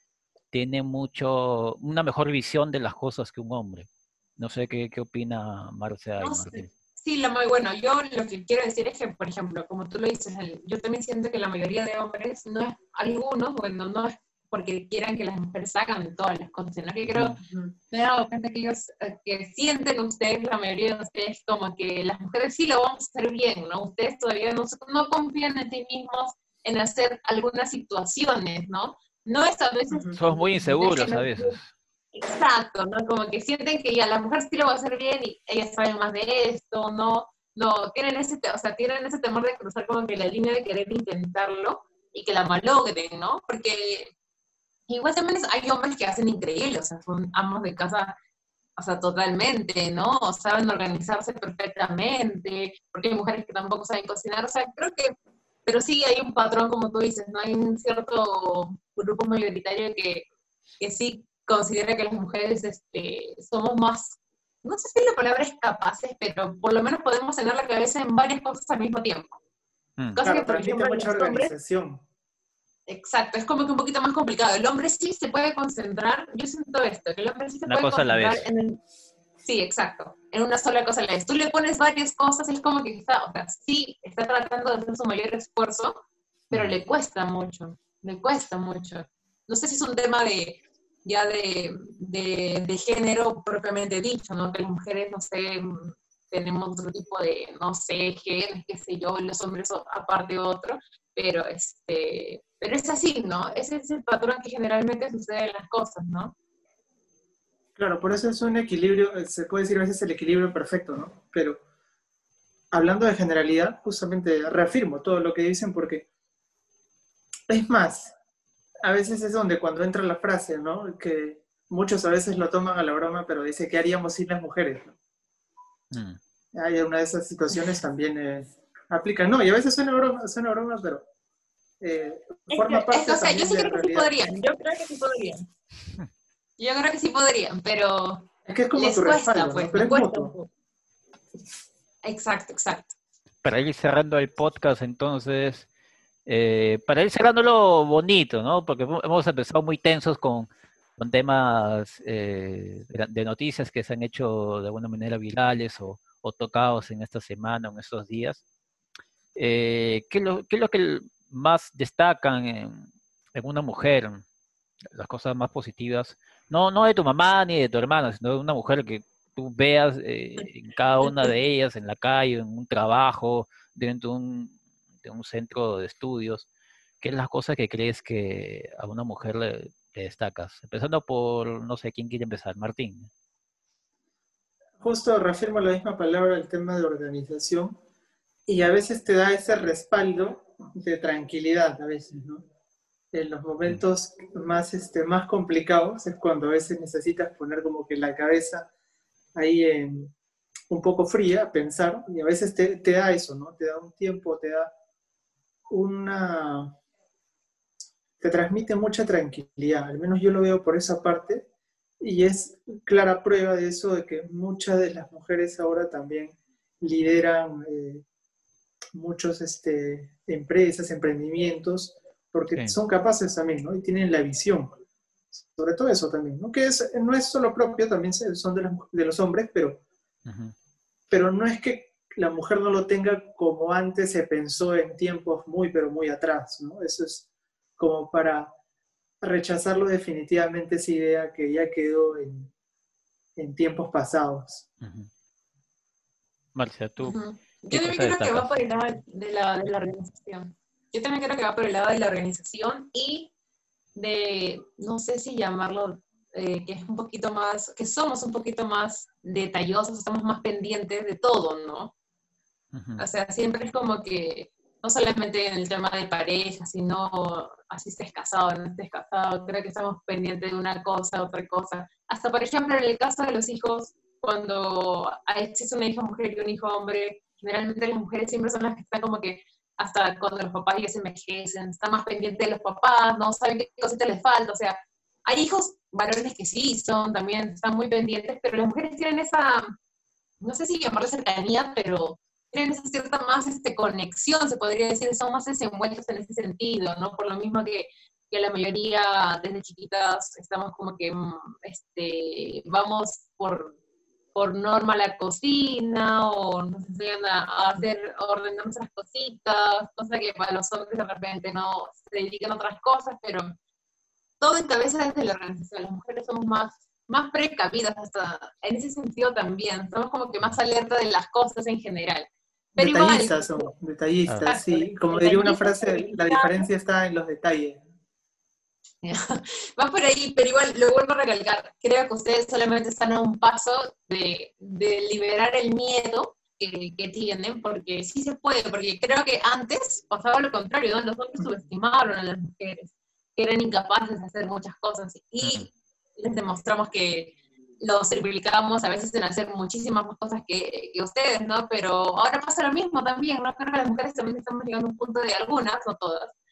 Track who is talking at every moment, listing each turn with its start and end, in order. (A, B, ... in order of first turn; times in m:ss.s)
0:00.5-0:06.7 A
0:06.2-0:17.4 B
0:17.1-0:17.4 A
0:17.4-0:17.7 C
0:17.9-0:31.6 B
0:29.9-0:30.2 C
0:30.2-0:31.7 A
0:32.1-0:44.1 B
0:44.9-0:48.2 B
0:48.8-0:55.1 B
0:55.7-1:00.3 B
1:00.8-1:09.4 B
1:10.2-1:11.5 B
1:10.2-1:12.0 C
1:12.9-1:18.8 B
1:17.7-1:18.4 A
1:19.4-1:26.0 B
1:26.5-1:26.8 A
1:26.5-1:46.4 B
1:47.8-1:51.6 C
1:52.7-1:56.1 C
1:57.5-1:58.2 C
1:58.8-2:05.0 C
2:05.9-2:06.2 A
2:06.5-2:11.1 C
2:11.8-2:14.1 C
2:12.5-2:15.5 B
2:16.6-2:20.5 B
2:18.5-2:20.3 C
2:22.0-2:23.0 B
2:23.4-2:25.7 A
2:26.3-2:38.4 A
2:39.4-2:44.2 A
2:44.9-2:56.5 A
2:57.0-3:03.1 A
3:04.8-3:07.8 C
3:08.5-3:12.4 C
3:13.1-3:18.7 C
3:19.4-3:20.1 C
3:20.7-3:24.7 C
3:25.7-3:26.8 C
3:28.2-3:31.5 C
3:32.0-3:38.0 C
3:39.0-3:44.8 C
3:45.3-3:49.8 C
3:50.3-3:50.5 A
3:51.1-3:57.3 C
3:57.8-3:58.5 C
3:59.2-4:02.5 C
4:03.4-4:04.6 C
4:04.8-4:05.1 A
4:06.6-4:07.2 A
4:07.0-4:13.3 B
4:07.7-4:08.6 A
4:14.0-4:21.9 B
4:22.7-4:23.0 A
4:23.0-4:49.8 B
4:50.4-5:03.8 B
5:04.3-5:13.6 B
5:14.4-5:23.7 B
5:22.8-5:27.8 C
5:24.5-5:26.7 B
5:29.0-5:56.3 B
5:45.4-5:45.7 A